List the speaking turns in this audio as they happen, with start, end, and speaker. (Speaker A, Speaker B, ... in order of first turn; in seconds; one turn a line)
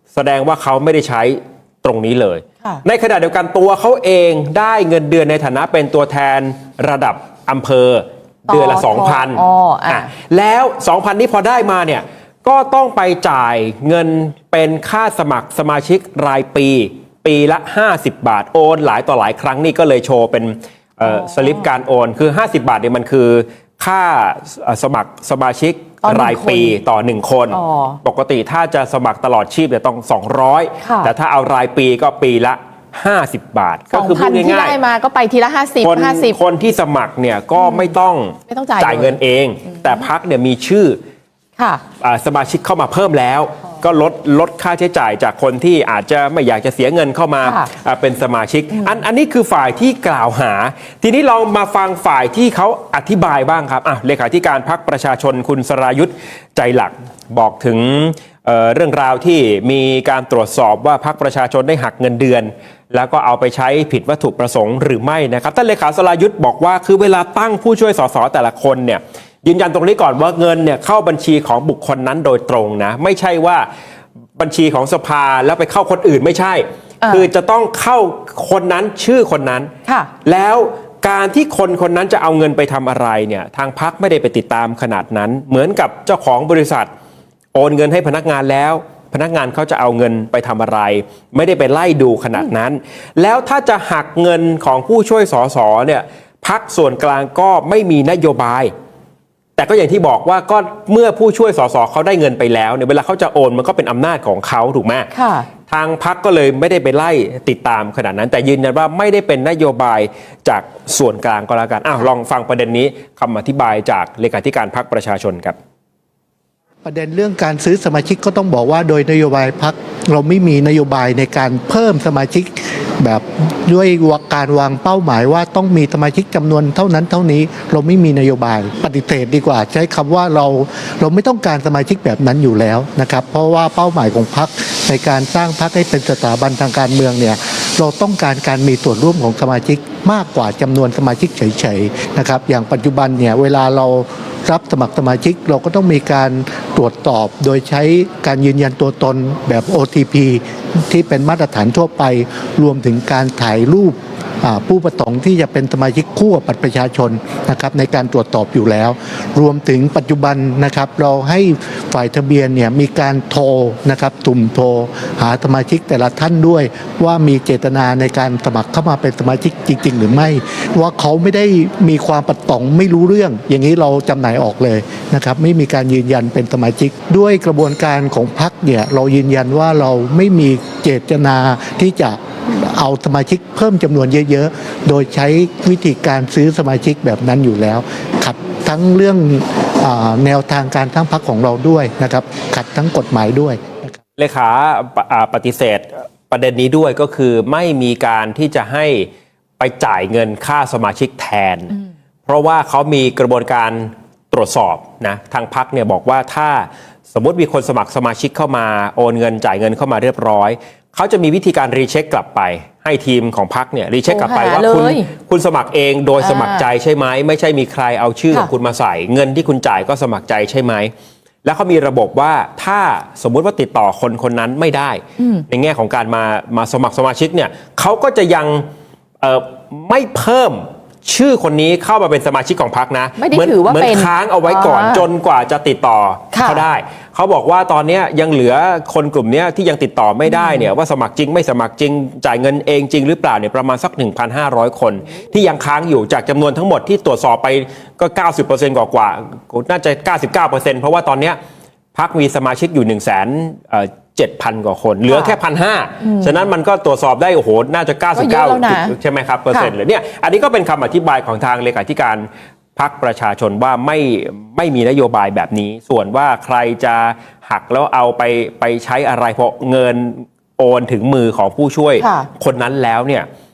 Speaker A: 0.1-34.8
Speaker B: 8.5-10.1
Speaker B: 21.0-21.6
Speaker B: 26.0-26.8
Speaker B: 27.5-28.0
Speaker B: 30.8-31.1
Speaker B: 33.9-36.4
Speaker A: 35.8-41.0
Speaker B: 37.6-37.9
Speaker B: 38.5-39.2
Speaker B: 39.7-40.0
Speaker A: 42.0-73.7
Speaker B: 47.4-47.7
Speaker A: 74.4-79.7
Speaker B: 77.0-77.3
Speaker A: 80.2-86.9
Speaker A: 87.5-98.7
Speaker A: 99.6-105.1
Speaker B: 105.1-105.5
Speaker A: 105.7-115.5
Speaker C: 116.8-193.9
Speaker A: 194.2-201.8
Speaker A: 202.3-220.9
Speaker B: 214.1-215.1
Speaker B: 216.2-216.6
Speaker A: 221.4-228.7
Speaker B: 225.2-225.4
Speaker A: 229.2-251.4
Speaker B: 233.2-235.1
Speaker B: 236.3-236.6
Speaker B: 240.3-240.7
Speaker A: 251.9-273.3
Speaker B: 255.1-255.3
Speaker B: 256.0-256.3
Speaker B: 258.1-258.9
Speaker B: 272.0-272.3